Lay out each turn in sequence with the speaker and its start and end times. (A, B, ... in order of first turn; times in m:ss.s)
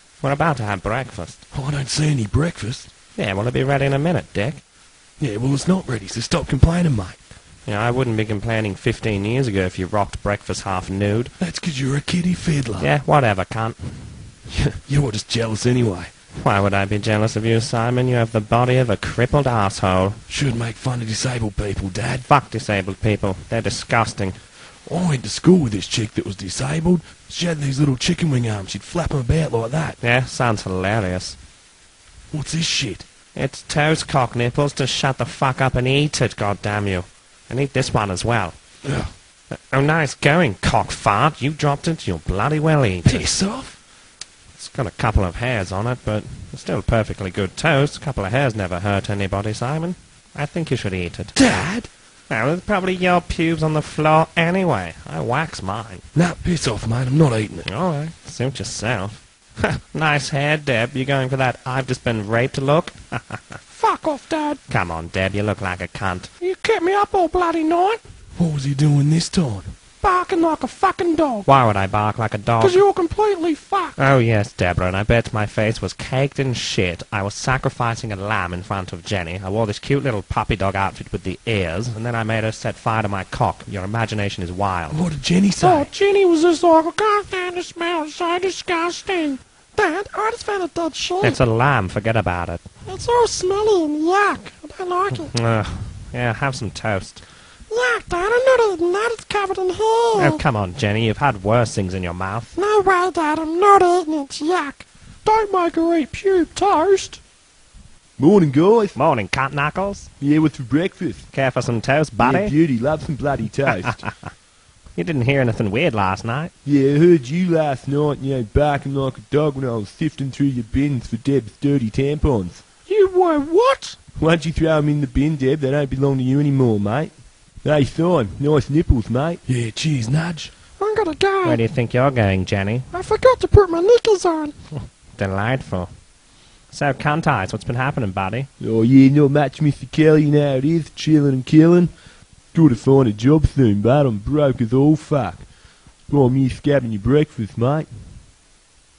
0:00.2-0:01.5 A
0:01.5-0:02.9 B
0:03.2-0:04.6 A
0:05.2-0:07.2 B
0:07.6-0:11.4 A
0:11.4-0:12.9 B
0:12.8-0:14.4 A
0:14.8-0:16.1 B
0:16.4-0:20.2 A
0:20.3-0:22.3 B
0:22.2-0:24.4 A
0:24.8-0:30.0 B
0:30.0-0:31.4 A
0:32.3-0:33.1 B
0:33.3-0:39.0 A
0:38.8-0:39.1 B
0:39.5-0:43.4 A
0:43.0-0:43.8 B
0:44.5-0:51.4 A
0:51.3-0:51.9 B
0:52.3-0:56.0 A
0:56.1-0:57.7 B
0:57.6-1:03.6 A
1:03.7-1:04.6 C
1:04.7-1:06.3 A
1:06.4-1:08.0 C
1:08.4-1:09.8 B
1:10.0-1:11.5 C
1:11.4-1:12.8 A
1:12.6-1:14.0 C
1:14.0-1:25.1 A
1:24.9-1:25.9 B
1:25.6-1:31.4 C
1:31.2-1:32.7 A
1:32.8-1:35.4 C
1:35.2-1:37.3 A
1:37.7-1:40.4 C
1:40.1-1:42.5 A
1:42.6-1:47.2 C
1:48.2-1:49.0 D
1:49.0-1:50.1 A
1:50.2-1:51.3 D
1:51.3-1:52.6 A
1:52.2-1:54.2 D
1:53.7-1:54.3 A
1:54.9-1:56.5 A
1:56.6-2:02.6 D
2:02.9-2:04.0 C
2:04.2-2:09.4 D
2:09.4-2:10.5 B
2:10.8-2:11.6 C
2:11.4-2:12.9 A
2:12.9-2:14.7 C
2:14.8-2:18.5 A
2:18.6-2:28.2 D